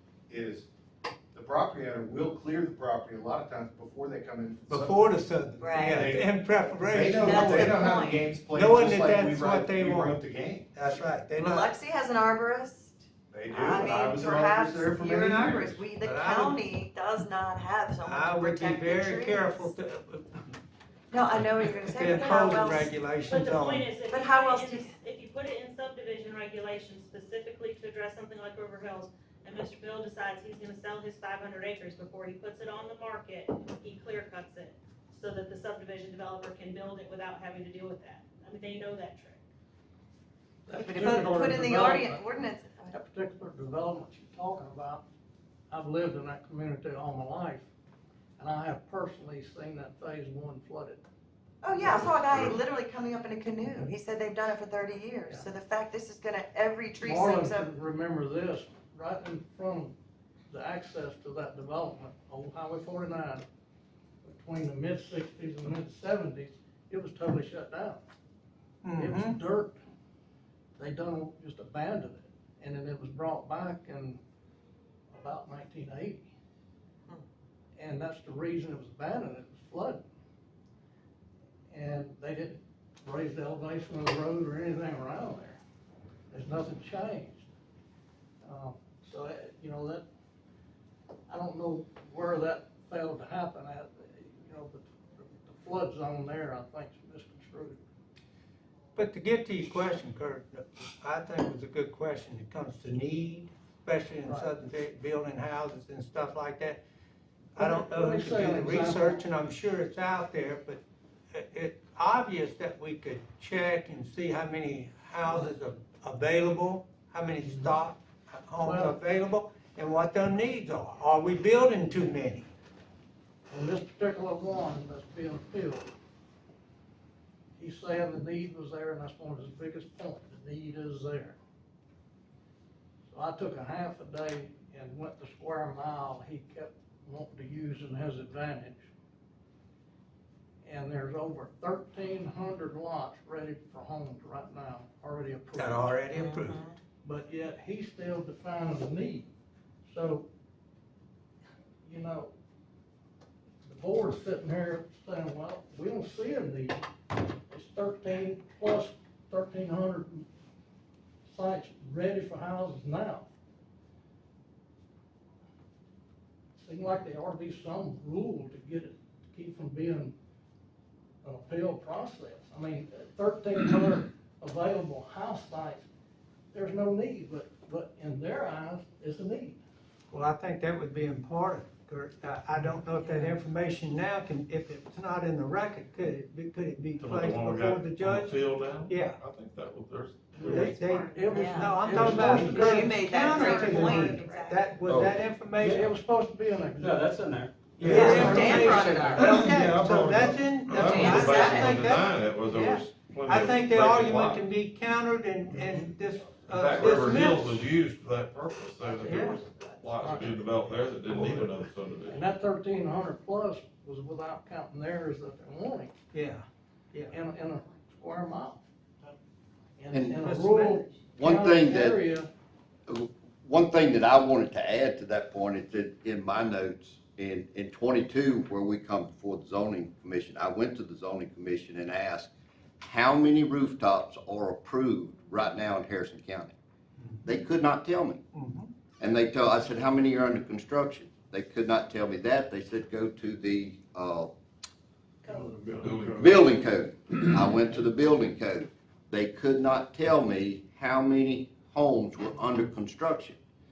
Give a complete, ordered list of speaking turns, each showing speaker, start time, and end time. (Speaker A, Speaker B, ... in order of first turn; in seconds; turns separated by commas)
Speaker A: 0.3-0.7, Speaker A: 1.3-5.2, Speaker B: 4.7-10.2, Speaker C: 5.6-5.9, Speaker A: 5.8-10.9, Speaker C: 7.2-8.2, Speaker B: 10.7-11.7, Speaker C: 11.3-19.7, Speaker A: 13.3-15.8, Speaker B: 16.0-16.6, Speaker B: 18.0-20.4, Speaker C: 21.1-22.9, Speaker B: 21.9-23.9, Speaker D: 23.3-39.4, Speaker C: 24.1-24.9, Speaker E: 40.7-42.2, Speaker C: 40.8-42.9, Speaker E: 42.9-45.0, Speaker E: 45.7-47.7, Speaker E: 48.4-51.0, Speaker C: 51.6-57.7, Speaker E: 51.7-52.3, Speaker E: 55.2-55.5, Speaker E: 57.0-59.9, Speaker E: 60.5-63.4, Speaker E: 64.2-68.0, Speaker B: 68.8-69.4, Speaker E: 69.0-69.8, Speaker E: 70.8-74.2, Speaker E: 75.1-76.3, Speaker E: 77.8-80.0, Speaker E: 81.7-85.6, Speaker E: 86.3-87.5, Speaker E: 88.4-90.0, Speaker E: 91.3-97.8, Speaker B: 98.9-106.8, Speaker E: 104.2-104.5, Speaker B: 107.5-110.8, Speaker E: 107.5-109.2, Speaker B: 111.3-122.5, Speaker E: 117.4-117.8, Speaker E: 118.6-119.0, Speaker E: 123.5-125.9, Speaker E: 127.6-131.4, Speaker E: 133.1-138.8, Speaker E: 140.6-146.0, Speaker B: 145.6-146.6, Speaker C: 146.2-146.8, Speaker E: 147.0-149.3, Speaker E: 149.8-150.2, Speaker E: 151.8-152.3, Speaker E: 153.6-156.8, Speaker E: 157.5-160.3, Speaker E: 161.3-163.3, Speaker E: 166.6-170.1, Speaker E: 171.2-175.8, Speaker E: 176.5-179.6, Speaker B: 180.1-189.2, Speaker F: 187.0-190.9, Speaker E: 190.3-193.9, Speaker B: 190.4-195.9, Speaker C: 191.3-192.0, Speaker F: 191.8-192.7, Speaker G: 192.4-192.7, Speaker C: 192.7-194.6, Speaker F: 194.8-195.2, Speaker E: 195.6-197.1, Speaker G: 196.8-199.8, Speaker B: 197.8-207.6, Speaker C: 197.8-199.5, Speaker F: 197.9-198.4, Speaker E: 197.9-198.2, Speaker F: 199.1-204.5, Speaker C: 200.7-201.8, Speaker F: 206.5-212.2, Speaker E: 208.9-215.9, Speaker B: 209.0-209.4, Speaker B: 216.1-217.1, Speaker E: 217.1-219.2, Speaker E: 219.8-222.3, Speaker H: 219.9-220.2, Speaker B: 220.2-220.8, Speaker H: 221.2-222.0, Speaker H: 222.9-232.3, Speaker H: 232.8-236.6, Speaker H: 237.2-238.2, Speaker B: 238.3-238.7, Speaker H: 239.0-244.3, Speaker D: 245.2-245.5, Speaker F: 245.8-246.2, Speaker H: 246.2-253.4